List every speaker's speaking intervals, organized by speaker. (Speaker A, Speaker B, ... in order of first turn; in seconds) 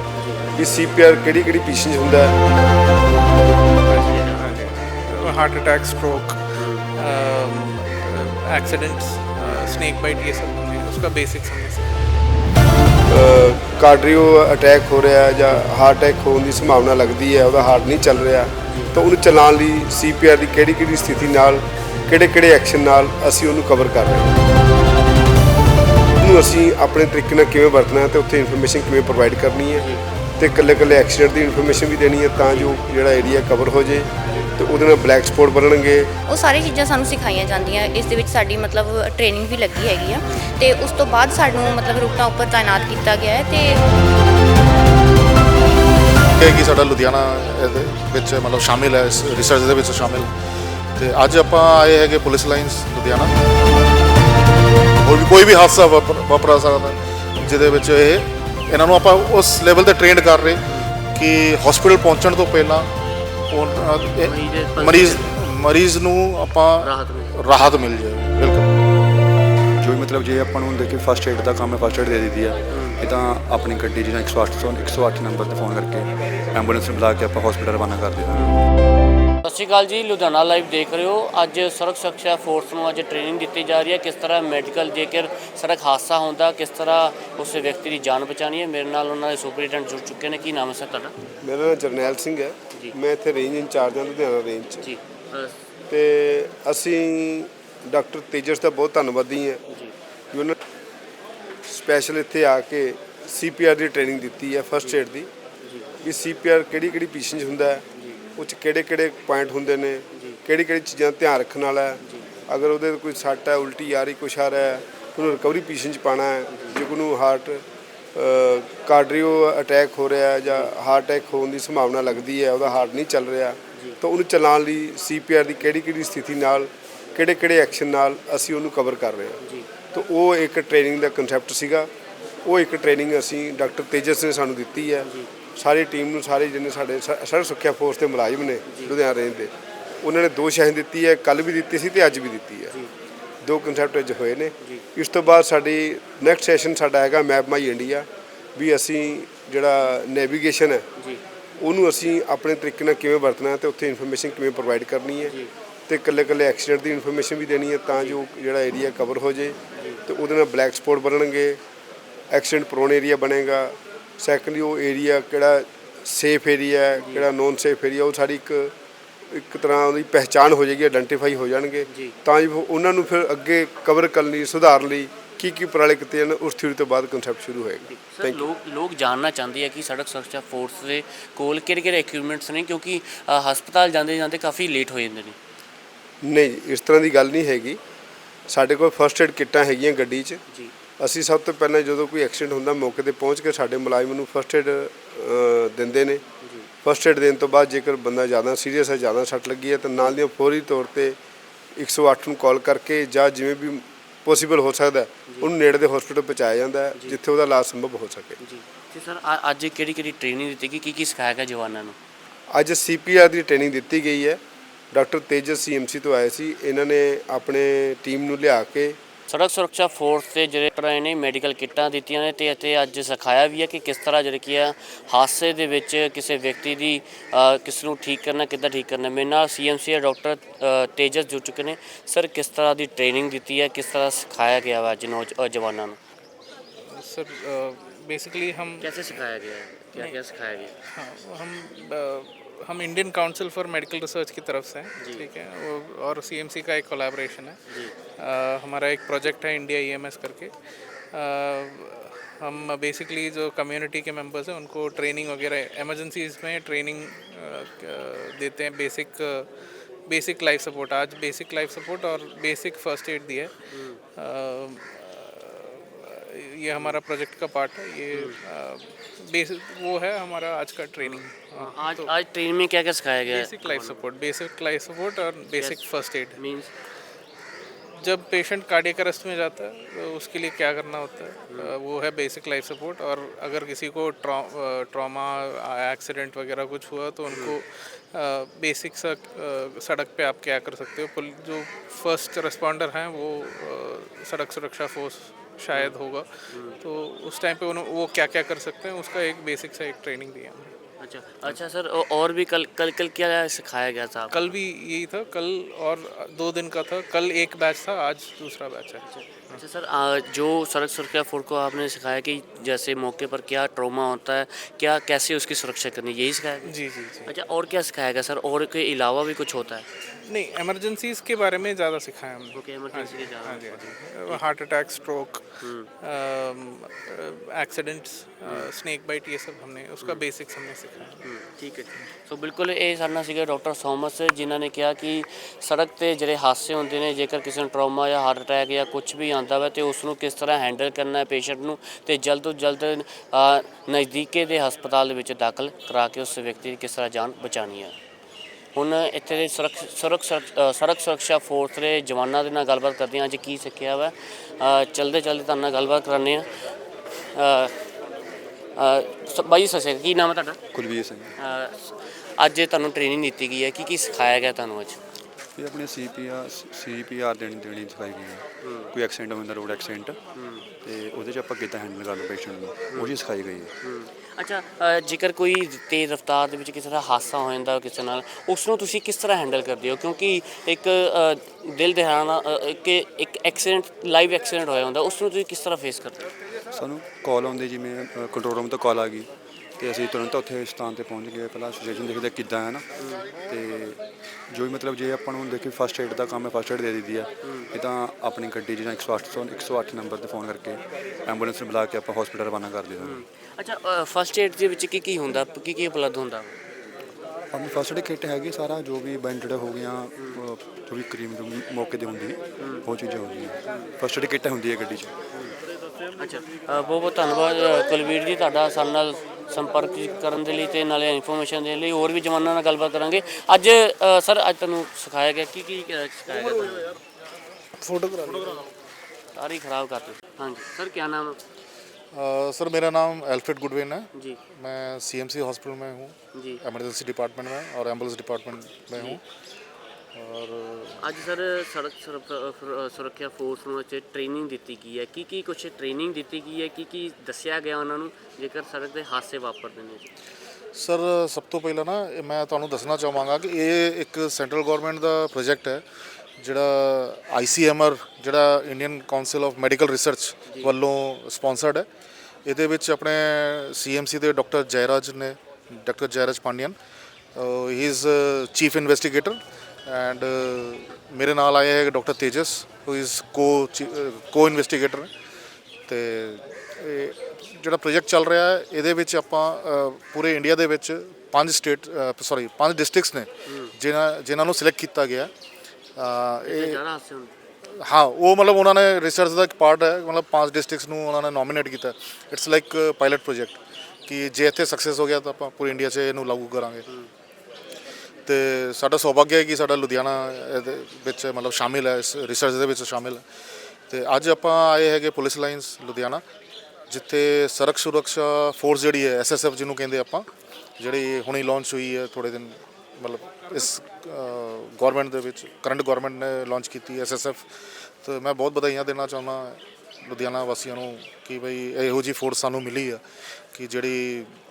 Speaker A: 0.1-0.6, 3.9-5.3, 6.6-6.9, 18.7-18.9, 29.8-30.0, 40.2-40.5, 60.7-60.9, 64.2-65.3, 66.8-67.4, 72.7-73.0, 78.3-78.5, 79.4-91.1, 94.8-95.5, 99.7-99.9, 105.6-105.9, 107.9-108.2, 110.1-110.4, 116.5-116.8, 129.4-129.7, 135.0-135.3, 138.7-138.9, 151.0-151.2, 167.0-167.3, 171.9-172.1, 177.8-185.4, 196.4-196.7, 208.4-212.0, 219.3-236.0, 238.8-240.7, 245.0-245.2, 263.7-264.0, 268.1-268.4, 271.0-274.0, 275.6-276.7, 296.5-296.8, 301.0-304.3, 309.1-319.9, 322.5-324.4, 325.6-325.9, 331.2-347.9, 348.7-356.5, 357.3-357.7, 358.8-360.6, 361.4-365.0, 368.6-368.9, 370.4-370.7, 373.8-386.3, 393.0-393.3, 397.4-397.7, 403.0-406.6, 412.6-412.9, 413.6-413.9, 416.2-427.0, 429.3-431.4, 436.3-436.6, 441.0-450.1, 483.5-483.7, 486.4-487.3
Speaker B: 0.6-2.4, 13.1-24.4, 26.2-29.9, 30.4-36.1, 91.4-94.9, 95.9-99.6, 100.3-100.6, 101.7-105.3, 106.0-107.8, 108.4-117.6, 118.1-129.4, 129.9-131.9, 132.4-142.7, 143.4-150.8, 151.6-155.3, 155.9-161.6, 162.3-168.7, 169.3-178.5, 186.2-187.8, 188.5-190.4, 191.0-196.2, 196.8-201.2, 201.8-208.4, 212.5-214.4, 214.9-219.0
Speaker C: 3.9-12.0, 236.8-239.2, 240.9-247.6, 248.2-250.5, 251.1-259.5, 260.1-263.5, 264.1-272.1, 273.2-276.4, 278.0-300.7, 304.3-309.6, 316.6-317.3, 320.2-331.2, 427.8-428.6
Speaker D: 36.3-43.8
Speaker E: 46.4-50.3, 51.0-53.3, 55.0-60.6, 61.1-62.9, 63.5-68.7, 432.1-439.2, 440.1-441.0, 450.7-455.8, 456.4-461.9, 462.4-466.8, 467.4-475.1, 475.9-485.3, 486.0-486.8, 487.8-496.8, 498.2-503.2, 503.9-506.2, 506.9-510.3, 510.8-517.4, 518.0-523.0, 523.5-524.3
Speaker F: 69.8-78.5, 360.7-361.3, 365.6-370.2, 370.8-373.7, 386.7-392.9, 393.4-403.2, 407.5-415.1